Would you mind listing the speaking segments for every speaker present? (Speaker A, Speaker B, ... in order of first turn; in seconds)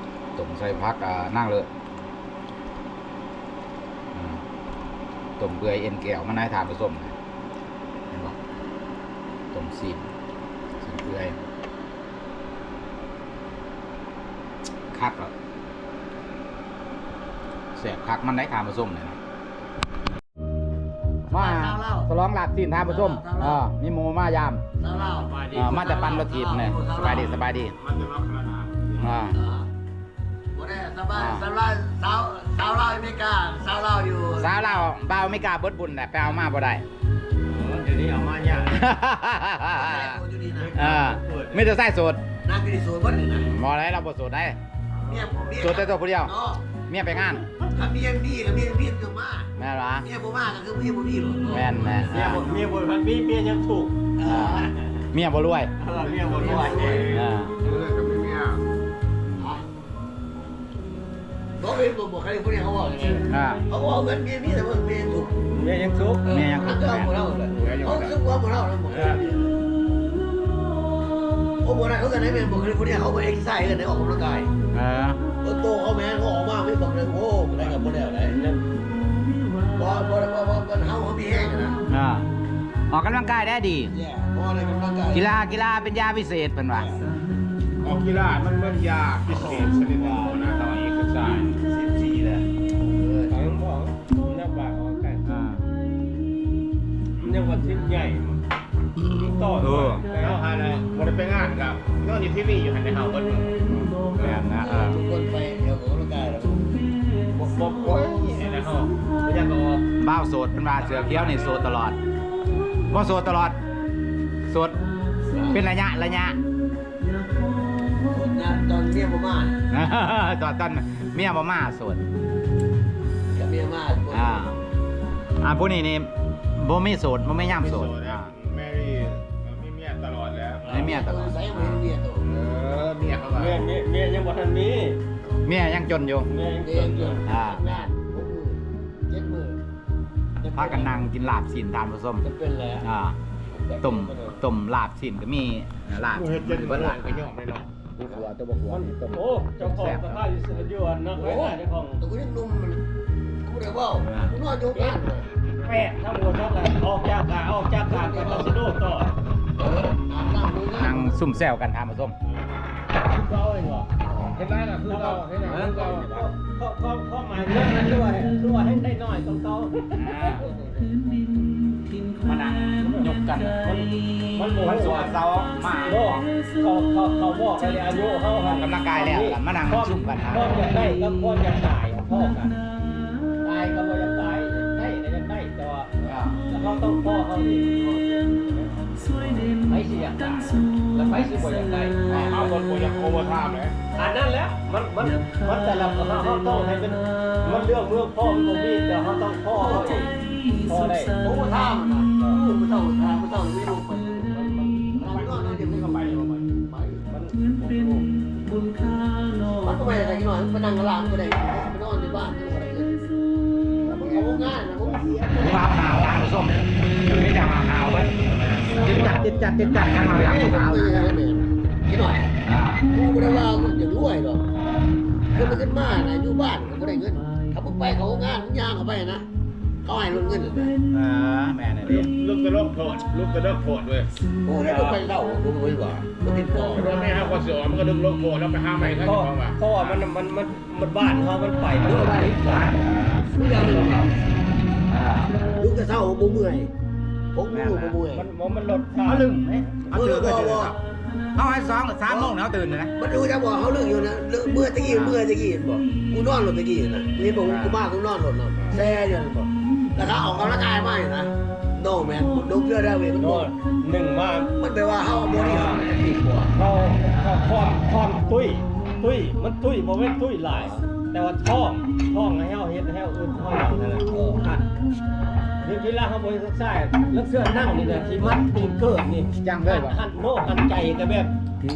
Speaker A: 0.3-1.7, 4.1-4.4, 5.4-7.1, 8.1-8.4, 9.5-10.1, 10.8-11.4, 14.9-15.3, 17.7-19.2, 21.3-24.7, 25.5-27.8, 29.0-29.4, 31.1-31.4, 34.4-36.8, 38.7-40.2, 40.7-42.2, 43.4-44.6, 45.6-46.3, 46.9-47.4, 49.5-50.1, 51.5-52.4, 54.2-55.7, 57.1-57.5, 59.2-59.5, 63.3-63.6, 66.3-67.1, 74.7-75.2, 81.9-82.3, 82.9-83.9, 85.1-86.9, 95.2-95.7, 99.6-100.0, 103.7-105.0, 110.0-112.0, 112.9-113.6, 114.5-114.8, 115.5-116.4, 119.7-122.0, 124.1-124.6, 125.4-128.3, 130.7-131.8, 135.4-136.3, 137.2-137.8, 140.5-142.2, 142.8-143.2, 143.8-147.3, 147.9-150.2, 154.0-154.3, 160.7-162.1, 169.9-170.4, 172.2-173.6, 174.4-176.2, 178.4-180.7, 186.0-186.4, 191.0-192.4, 215.3-221.1, 222.4-222.8, 225.3-225.7, 230.9-232.1, 242.5-243.3, 244.9-245.3, 247.5-248.0, 249.0-250.8, 251.3-252.9, 254.9-255.2, 257.4-257.8, 279.4-280.0
Speaker B: 21.3-22.1, 22.9-23.6, 24.8-27.4, 29.3-29.7, 30.5-34.5, 39.7-40.8, 42.4-43.5, 45.0-46.6, 47.6-49.5, 50.0-52.5, 54.2-54.9, 55.9-57.1, 61.6-65.4, 66.2-69.6, 71.6-74.5, 75.4-78.4, 79.8-81.8, 83.9-85.3, 89.5-90.4, 91.5-93.3, 104.5-106.7, 115.3-115.6, 118.1-119.6, 123.3-124.5, 130.7-132.2, 136.6-139.6, 140.4-140.9, 142.2-142.8, 143.5-144.4, 151.2-152.8, 153.4-155.3, 157.9-158.5, 159.6-161.2, 199.6-200.1, 201.2-207.1, 209.6-212.9, 213.8-215.9, 220.0-222.3, 222.9-224.4, 225.3-229.2, 229.8-230.7, 234.4-237.2, 241.8-242.7, 243.3-244.1, 245.5-246.7, 247.3-248.2, 249.9-250.8, 252.1-252.3, 252.9-263.5, 264.6-266.5
Speaker C: 25.1-25.8, 27.8-29.1, 55.9-58.6, 67.5-68.2, 87.8-91.5, 100.2-103.6, 107.3-109.8, 110.8-111.6, 127.5-130.9, 132.2-133.7, 146.1-147.7, 164.1-166.2, 192.1-193.7, 205.1-206.3, 231.8-234.1, 236.7-240.0
Speaker D: 37.4-38.8, 40.5-41.7, 52.0-54.0, 55.8-57.2, 65.5-66.2, 68.9-69.2, 78.4-78.6, 93.3-95.2, 97.2-98.4, 99.0-100.4, 133.3-135.0, 136.3-137.2, 148.7-152.0, 155.6-159.1, 163.0-163.9, 164.8-170.5, 172.8-175.2, 175.8-182.6, 183.4-188.7, 189.5-192.3, 193.9-201.2, 207.1-208.1, 234.6-235.0, 238.8-242.7, 248.1-249.3, 263.2-264.5, 265.4-265.8, 266.5-274.7, 275.6-281.3